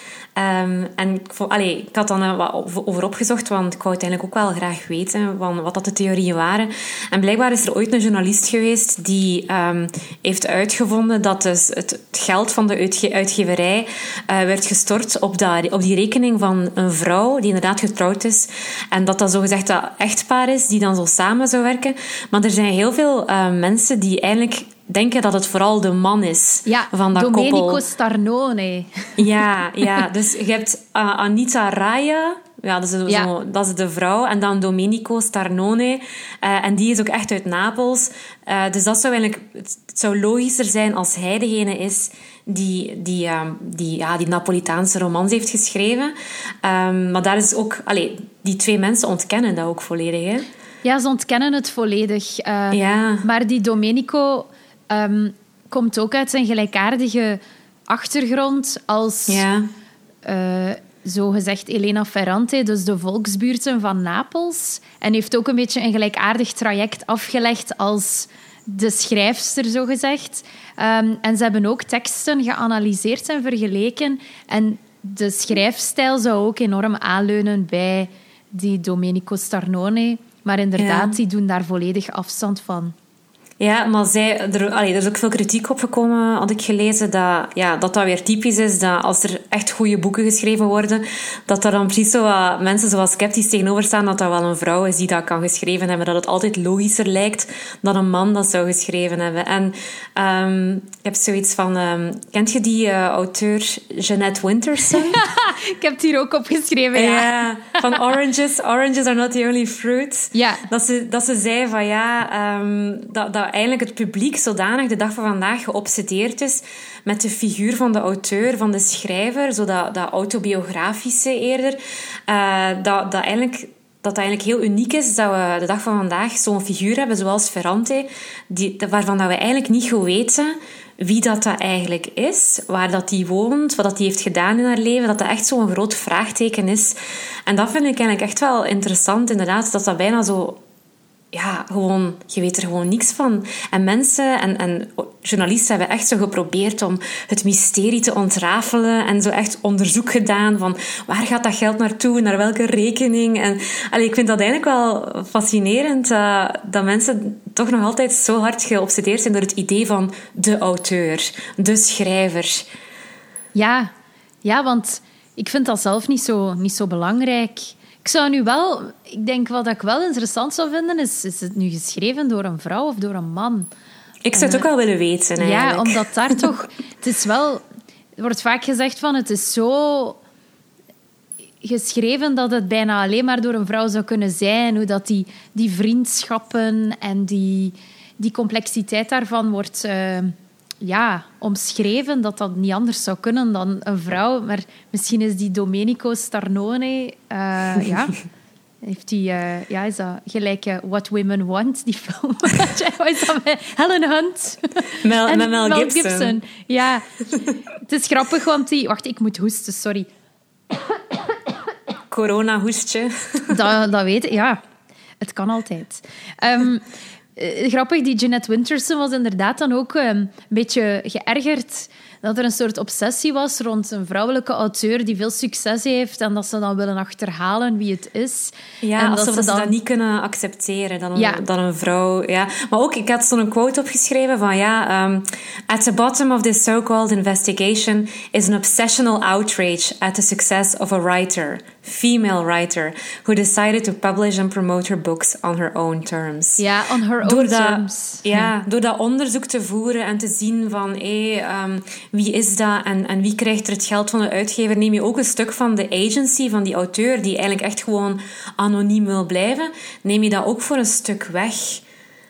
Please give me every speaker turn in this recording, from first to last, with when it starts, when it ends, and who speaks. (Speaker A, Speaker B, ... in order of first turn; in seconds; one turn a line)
Speaker A: 0.3-27.8
Speaker B: 26.6-29.2
Speaker A: 29.2-50.5
Speaker B: 50.8-59.4
Speaker A: 52.7-53.2
Speaker A: 59.3-59.7
Speaker B: 60.2-82.9
Speaker A: 80.8-81.1
Speaker A: 83.6-105.2
Speaker B: 105.1-108.1
Speaker A: 106.9-140.6
Speaker B: 110.3-110.7
Speaker A: 141.3-162.7
Speaker B: 163.5-163.9
Speaker B: 164.4-173.7
Speaker A: 174.2-176.1
Speaker B: 174.3-174.7
Speaker B: 175.4-177.6
Speaker B: 178.2-180.2
Speaker B: 181.6-198.2
Speaker B: 198.8-207.0
Speaker A: 205.0-206.4
Speaker B: 207.8-210.1
Speaker A: 212.1-213.6
Speaker B: 213.5-214.6
Speaker B: 215.2-229.7
Speaker A: 228.8-246.6
Speaker B: 231.1-231.4
Speaker B: 246.6-248.5
Speaker A: 247.2-261.8